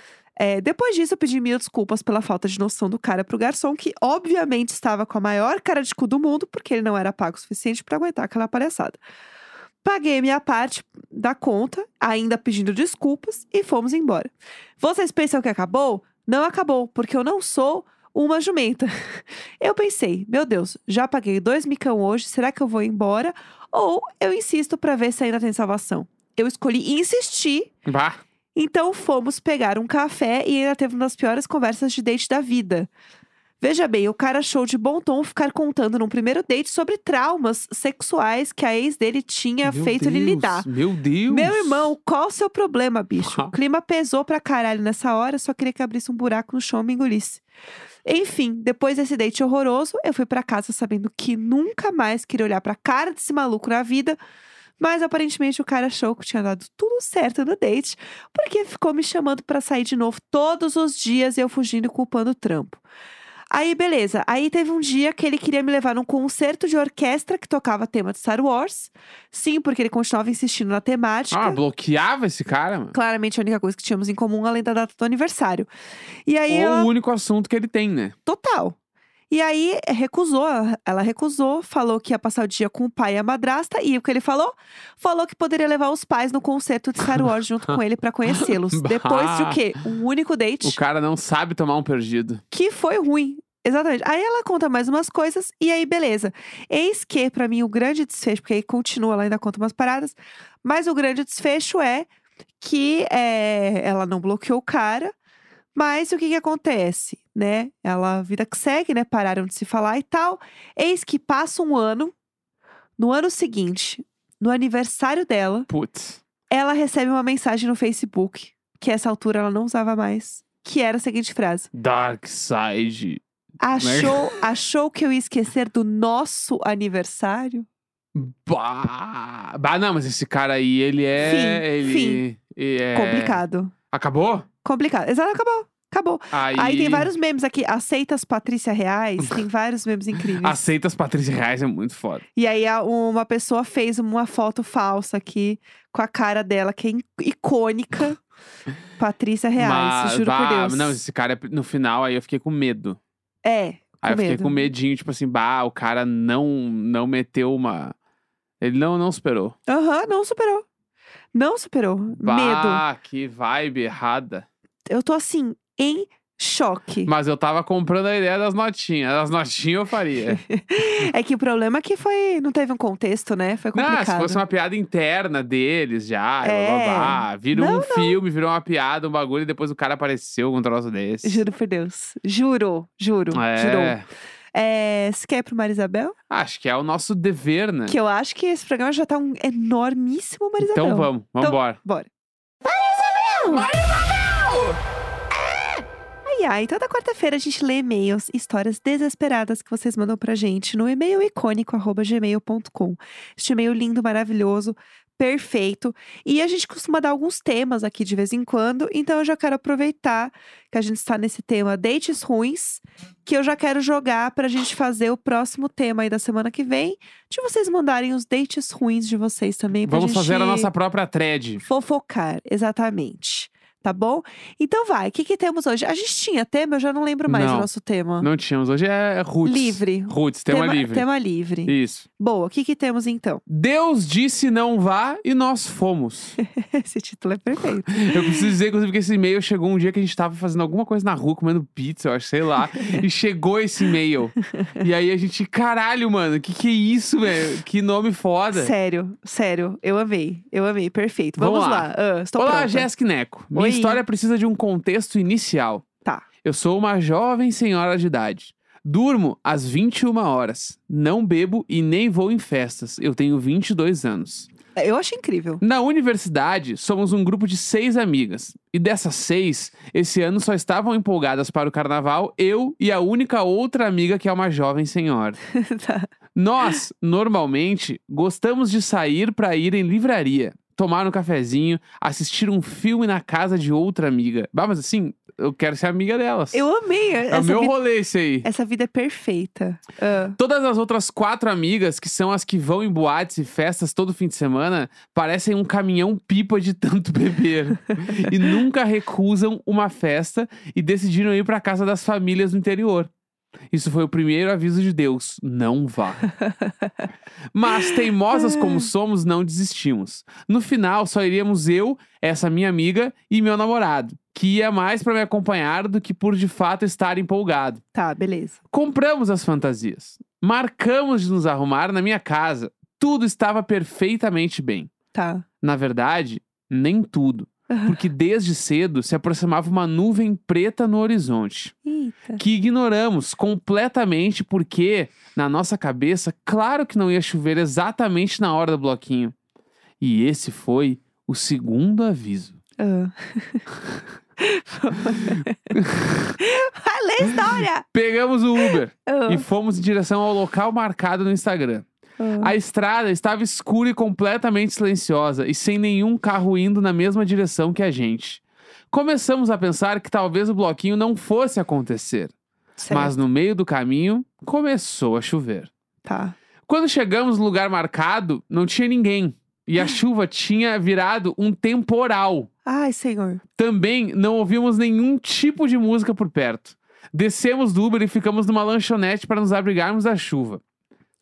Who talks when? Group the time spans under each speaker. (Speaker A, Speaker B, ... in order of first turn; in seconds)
Speaker A: 0.4-9.0, 9.8-18.9, 19.6-27.7, 28.5-32.9, 33.6-40.7, 41.3-47.4, 48.0-54.2, 54.8-62.8, 63.5-71.6, 72.9-75.7, 76.2-76.9, 78.2-78.8, 79.3-90.8, 92.5-102.1, 102.6-105.1, 105.7-112.1, 113.0-115.7, 116.5-121.7, 123.6-127.7, 131.2-132.2, 132.9-133.7, 134.6-140.6, 142.3-148.2, 149.0-151.0, 153.4-154.7, 159.7-160.7, 161.3-162.8, 164.9-167.1, 170.3-174.4, 176.4-178.2, 181.2-183.9, 184.5-186.2, 187.9-192.1, 193.3-193.7, 196.2-220.7, 221.6-228.3, 229.4-233.4, 236.5-238.5, 248.5-252.9, 253.5-254.0, 264.8-265.6, 275.5-276.1, 286.5-287.7, 288.4-290.4, 306.4-306.9, 307.7-308.9, 317.9-318.6, 325.1-325.4, 327.7-328.0, 331.8-332.4, 342.8-343.6, 344.4-345.7, 346.4-347.9, 348.6-349.4, 352.2-352.5, 362.8-363.1, 366.0-366.4, 372.6-373.4
Speaker B: 27.9-28.2, 39.6-41.9, 43.2-43.5, 71.3-72.9, 76.5-78.1, 88.4-89.6, 90.6-92.4, 115.7-116.2, 121.7-123.2, 123.8-124.3, 128.1-134.4, 136.3-137.1, 140.4-142.2, 149.6-153.0, 154.0-157.9, 158.6-159.6, 162.2-164.4, 167.1-170.4, 173.7-181.4, 183.3-184.1, 186.3-187.9, 190.6-191.8, 192.9-194.8, 219.8-221.6, 227.3-227.7, 228.2-231.1, 231.7-232.0, 233.5-236.4, 238.0-248.7, 251.4-255.8, 256.4-264.5, 265.6-275.4, 276.3-286.6, 287.3-288.5, 290.4-303.1, 303.7-306.3, 307.5-317.8, 318.7-324.9, 325.6-331.7, 332.4-339.3, 340.0-342.6, 345.2-346.4, 347.3-351.9, 352.4-362.3, 362.9-365.7, 366.7-372.5, 373.6-380.6